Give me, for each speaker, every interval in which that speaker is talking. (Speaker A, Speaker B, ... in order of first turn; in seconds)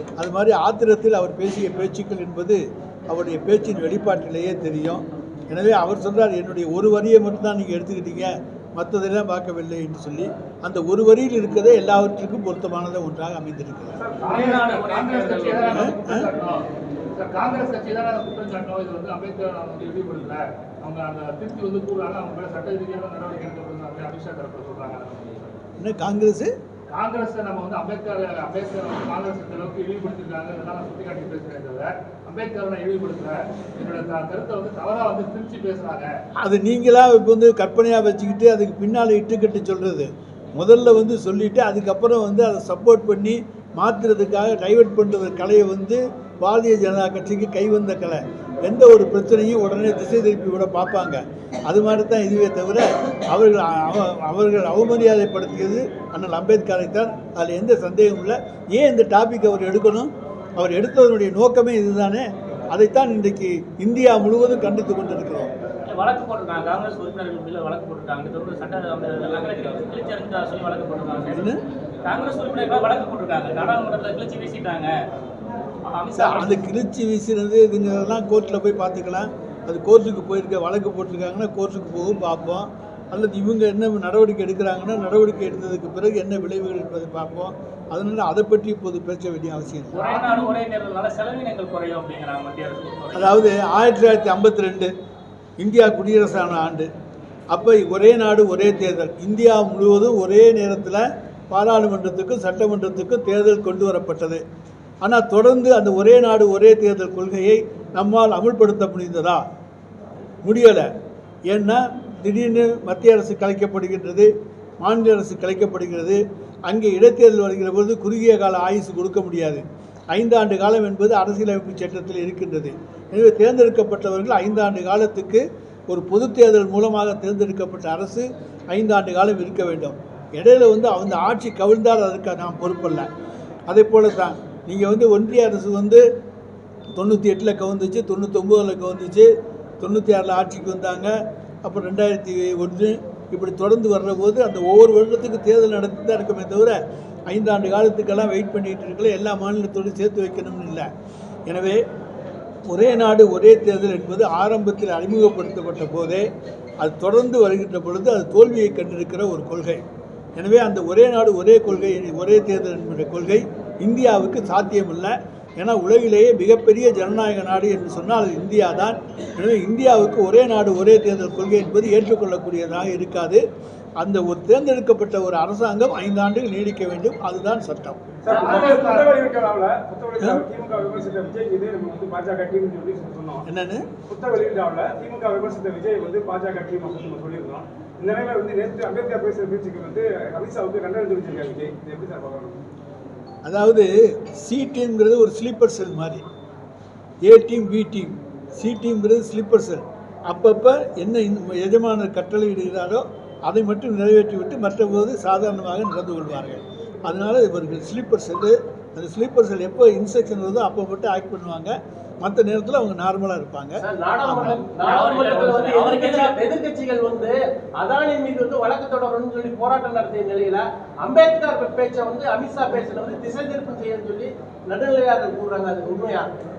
Speaker A: 0.2-14.0, 15.7-16.2, 25.8-26.5, 36.4-65.5, 71.3-71.6, 76.2-90.2, 93.1-94.9, 95.6-96.9, 97.5-104.4, 105.0-109.4, 110.4-110.9, 111.5-114.3, 114.8-133.1, 133.7-136.0, 136.9-139.3, 139.8-146.8, 147.3-150.9, 151.5-151.8, 152.7-156.3, 156.8-159.8, 160.4-173.4, 174.0-178.0, 183.5-183.8, 193.4-196.2, 197.2-214.6
Speaker B: 14.0-14.9, 178.2-183.4, 184.1-192.6
Speaker C: 14.2-16.6, 17.1-25.5, 26.9-36.1, 178.4-179.2
Speaker D: 14.3-15.8, 65.9-74.9, 75.9-76.6, 89.9-93.4, 214.8-216.4
Speaker E: 213.8-226.3